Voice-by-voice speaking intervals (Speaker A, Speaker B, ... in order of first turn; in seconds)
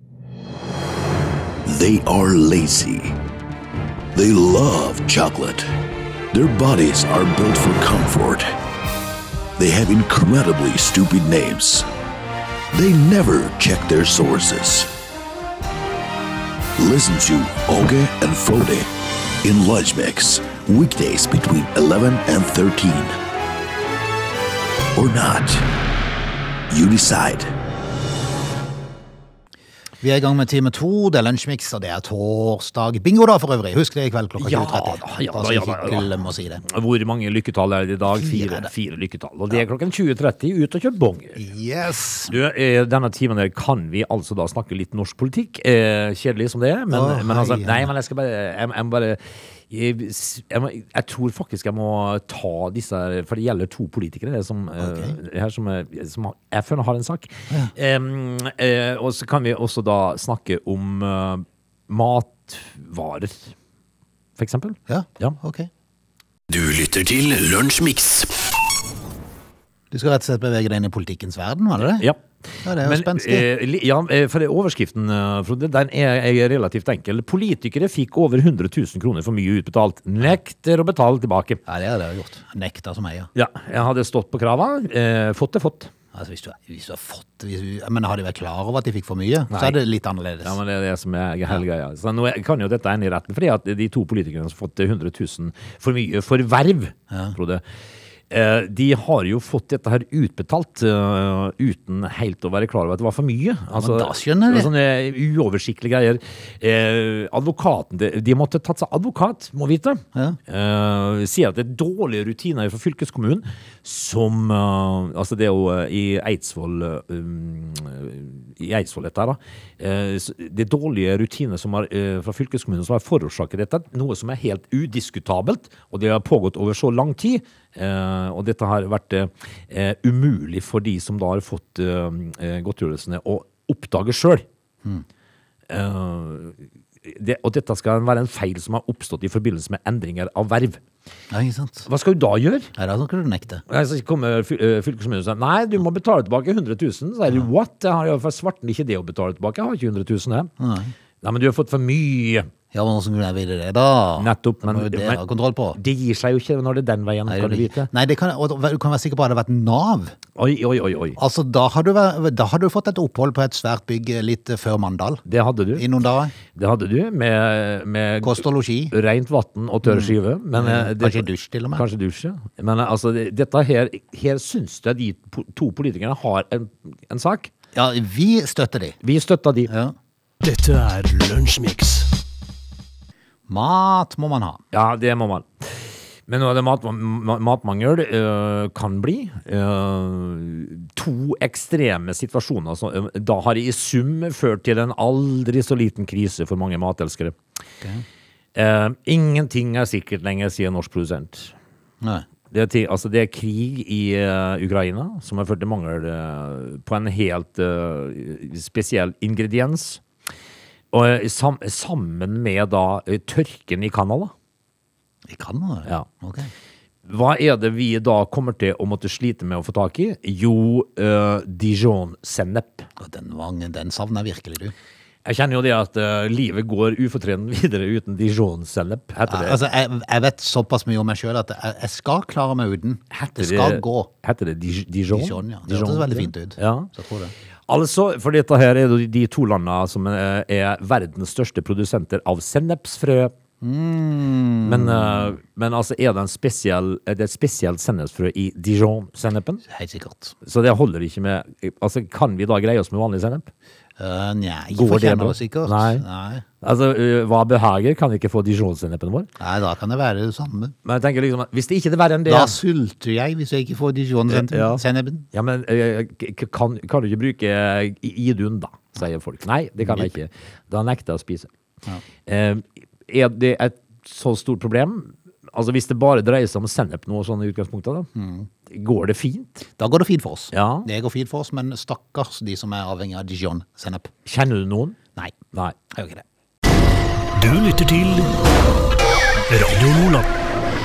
Speaker A: 1.6-3.2, 4.2-5.7, 6.3-8.5, 9.6-11.9, 12.7-14.9, 16.8-18.9, 19.4-23.1, 24.9-25.7, 26.7-27.5, 66.5-68.5
Speaker B: 30.0-36.6, 38.1-38.7, 41.4-42.4, 46.9-47.9, 54.8-55.2, 64.9-65.7, 69.9-72.1, 72.6-73.5, 81.7-83.3, 86.2-90.5, 103.7-104.7, 141.3-141.9, 142.8-143.6, 150.6-150.9, 152.7-155.8, 157.3-160.2, 161.2-165.2, 165.8-166.3, 168.2-168.9, 169.8-171.8, 177.8-179.0, 179.7-179.9, 183.5-184.6, 215.3-216.5, 223.0-224.7, 229.3-234.1, 235.1-237.3, 243.6-245.4, 249.7-250.4, 254.0-256.4, 259.4-260.8, 262.3-265.3, 269.8-270.1, 278.2-278.5, 279.8-284.1, 285.9-286.2
Speaker C: 34.4-41.4, 42.3-63.5, 64.4-65.4, 71.8-81.6, 83.3-85.9, 89.5-89.8, 90.4-97.6, 98.3-134.4, 135.7-140.8, 141.9-142.7, 143.7-150.5, 151.2-152.5, 154.2-155.2, 155.8-157.9, 160.4-161.2, 165.3-165.9, 166.5-177.5, 179.0-179.7, 184.7-197.4, 198.6-201.5, 202.5-210.0, 210.9-214.3, 217.1-222.9, 225.2-229.6, 233.1-236.9, 237.7-243.3, 244.7-249.6, 250.4-253.5, 254.7-256.0, 256.6-259.3, 260.9-262.6, 264.3-271.5, 272.3-278.1, 278.7-279.6, 280.5-280.9, 284.3-285.0
Speaker D: 180.4-182.1, 287.4-288.3, 289.5-290.3